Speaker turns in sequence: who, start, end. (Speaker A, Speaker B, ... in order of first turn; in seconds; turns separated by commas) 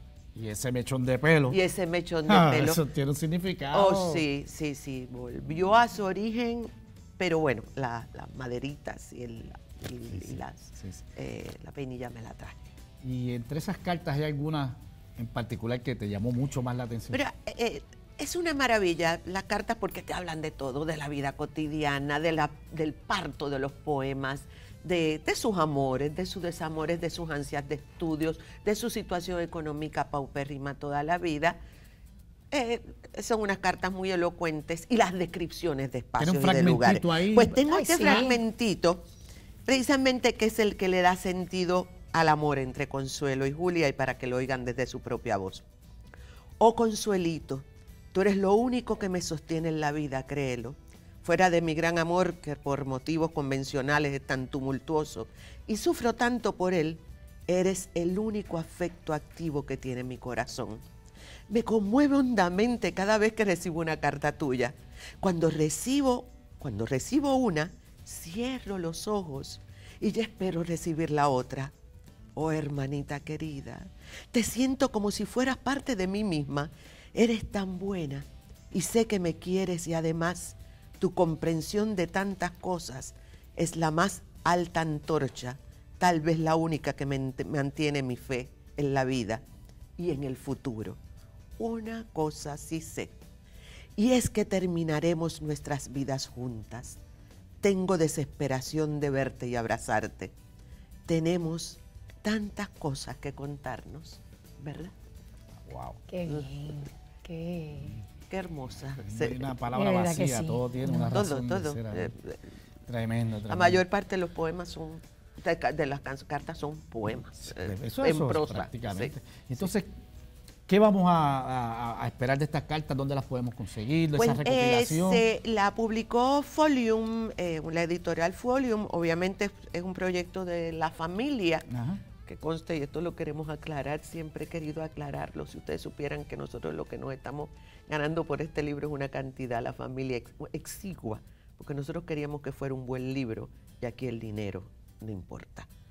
Speaker A: 0.3-1.6, Speaker B: 1.5-2.8, Speaker A: 2.3-4.2, Speaker B: 3.7-12.6, Speaker A: 10.1-11.0, Speaker A: 13.0-17.2, Speaker B: 17.1-31.6, Speaker B: 32.5-39.0, Speaker A: 36.2-37.6, Speaker C: 37.7-38.4, Speaker B: 39.7-45.6, Speaker B: 46.6-60.8, Speaker B: 61.5-71.7, Speaker B: 72.4-89.4, Speaker B: 90.0-91.0, Speaker B: 91.6-93.2, Speaker B: 94.0-97.0, Speaker B: 97.6-100.3, Speaker B: 101.1-104.9, Speaker A: 105.6-106.0, Speaker C: 106.1-108.0, Speaker B: 108.3-109.5, Speaker A: 109.0-112.1, Speaker C: 109.7-111.1, Speaker B: 111.1-112.4, Speaker A: 112.9-113.8, Speaker B: 113.5-119.7, Speaker A: 117.4-119.9, Speaker A: 120.7-125.3, Speaker B: 124.2-131.7, Speaker A: 131.7-132.0, Speaker B: 132.2-145.7